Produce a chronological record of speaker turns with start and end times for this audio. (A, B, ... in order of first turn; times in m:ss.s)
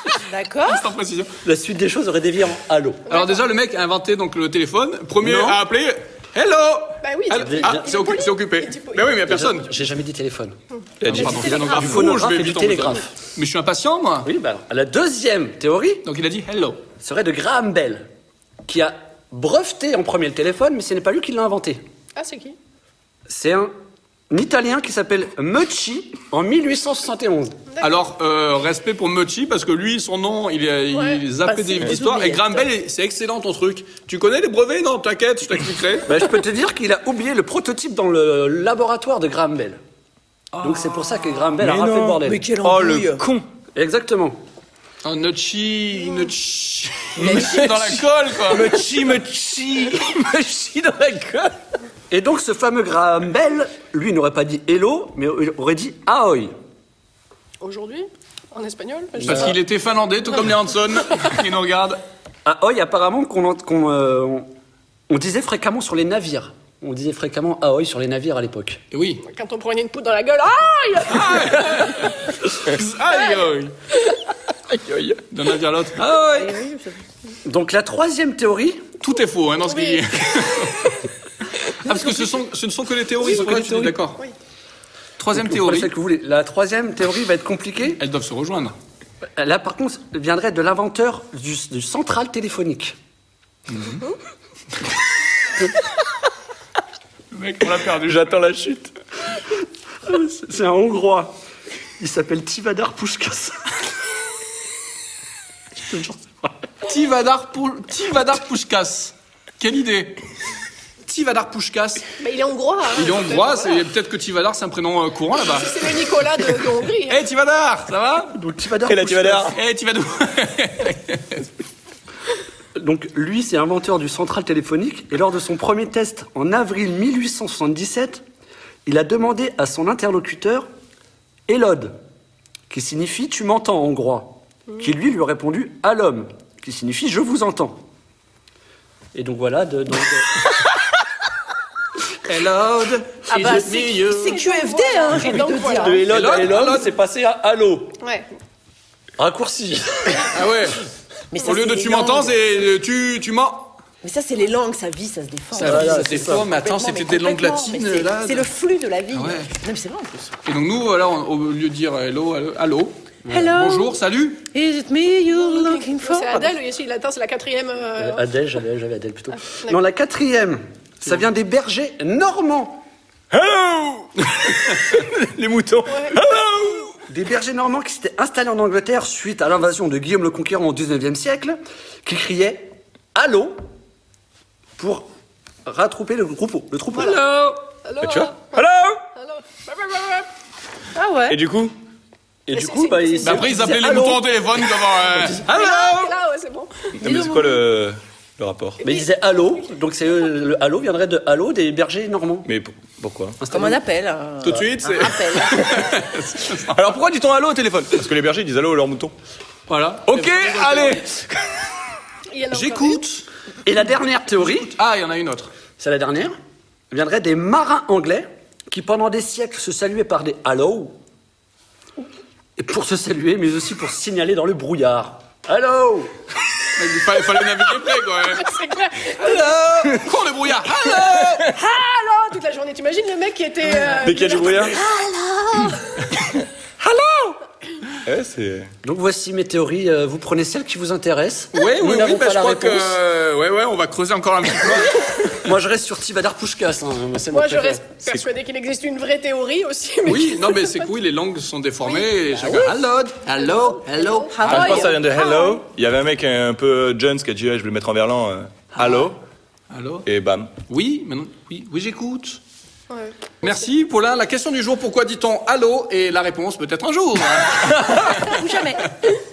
0:00.2-0:00.8 A
0:00.6-0:01.3 B
0:01.4-0:03.1 C
0:03.1-0:03.4 D
0:03.1-0:09.7 B
0:05.2-0:05.6 C
0:07.0-0:09.2 D
0:07.3-0:07.8 C
0:09.2-0:13.1 C
0:10.8-0:11.9 D
0:11.0-0:12.1 E
0:11.1-0:14.3 B
0:14.2-0:16.0 C
0:16.0-0:16.8 B
0:17.0-0:18.1 C
0:18.7-0:21.8 C
0:22.2-0:22.6 D
0:23.3-0:23.7 C
0:24.3-0:27.6 C
0:27.7-0:28.0 D
0:27.8-0:36.1 B
0:30.9-0:31.2 D
0:31.4-0:32.7 A
0:36.0-0:39.8 C
0:40.6-0:42.4 C
0:40.6-0:41.0 B
0:41.6-0:43.4 E
0:42.2-0:43.2 A
0:43.7-0:44.4 C
0:45.0-0:48.8 B
0:47.2-0:51.5 E
0:47.2-0:47.7 A
0:52.1-0:56.5 C
0:57.6-0:59.5 D
0:59.2-0:59.6 C
0:59.2-1:02.0 B
1:02.4-1:04.5 C
1:05.1-1:08.8 C
1:08.9-1:09.2 B
1:09.2-1:12.1 D
1:11.1-1:13.7 B
1:13.1-1:13.4 D
1:14.7-1:15.2 E
1:15.3-1:16.1 B
1:16.0-1:16.5 C
1:16.2-1:17.0 A
1:17.4-1:18.8 C
1:19.0-1:21.0 B
1:19.6-1:20.0 D
1:21.8-1:24.2 B
1:23.2-1:24.0 C
1:25.2-1:25.9 B
1:25.4-1:28.0 C
1:28.0-1:28.7 B
1:29.4-1:33.0 C
1:33.7-1:34.0 B
1:37.3-1:38.3 B
1:38.0-1:38.9 E
1:40.0-1:41.3 C
1:42.0-1:43.6 C
1:45.8-1:46.5 C
1:46.8-1:50.2 B
1:51.0-1:52.1 B
1:52.2-1:53.8 D
1:52.9-1:55.8 B
1:55.4-1:57.2 D
1:57.1-1:58.3 B
1:58.3-1:59.6 C
1:58.9-1:59.6 E
1:59.5-2:01.5 B
2:02.8-2:08.2 C
2:08.8-2:10.7 C
2:11.5-2:12.0 C
2:12.7-2:17.8 C
2:19.1-2:20.5 C
2:22.2-2:24.4 B
2:23.3-2:26.1 A
2:24.2-2:26.0 D
2:25.7-2:28.0 C
2:26.1-2:26.9 B
2:28.0-2:28.3 D
2:29.2-2:30.3 C
2:30.3-2:30.8 B
2:31.3-2:32.4 A
2:31.4-2:33.8 B
2:34.0-2:40.3 A
2:35.5-2:38.5 B
2:35.6-2:36.5 C
2:39.1-2:39.5 B
2:40.4-2:44.4 B
2:43.2-2:43.5 C
2:43.3-2:43.9 A
2:44.5-2:46.6 A
2:45.4-2:48.2 D
2:48.0-2:52.8 C
2:53.3-2:56.9 E
2:55.9-2:56.2 D
2:57.1-3:03.6 C
3:04.8-3:05.1 C
3:05.6-3:07.3 C
3:06.9-3:07.2 D
3:07.0-3:07.5 B
3:07.8-3:10.3 D
3:08.0-3:09.0 E
3:10.9-3:11.4 A
3:11.3-3:11.7 E
3:12.5-3:14.2 C
3:12.5-3:13.6 D
3:13.2-3:16.1 B
3:15.4-3:16.7 D
3:17.0-3:18.8 E
3:17.0-3:17.6 A
3:18.8-3:19.1 D
3:18.8-3:22.5 C
3:22.4-3:23.4 E
3:23.4-3:23.8 C
3:23.5-3:26.0 A
3:24.4-3:26.8 B
3:26.7-3:29.1 E
3:29.7-3:31.1 B
3:30.0-3:31.2 E
3:32.3-3:33.0 D
3:32.5-3:33.3 B
3:33.6-3:34.7 C
3:34.4-3:35.5 B
3:35.8-3:36.3 C
3:36.9-3:41.0 C
3:42.6-3:46.1 C
3:46.8-3:51.5 B
3:48.3-3:49.4 D
3:51.5-3:55.9 D
3:54.0-3:54.8 E
3:58.0-3:58.7 E
3:58.8-4:03.0 C
4:01.5-4:05.0 B
4:05.4-4:07.8 C
4:07.3-4:10.8 D
4:10.0-4:14.9 B
4:11.8-4:12.1 D
4:13.3-4:14.8 D
4:14.3-4:15.6 A
4:14.4-4:19.2 E
4:19.7-4:20.0 B
4:20.0-4:20.5 E
4:20.7-4:22.4 B
4:22.9-4:23.6 D
4:23.4-4:28.3 B
4:28.2-4:28.9 A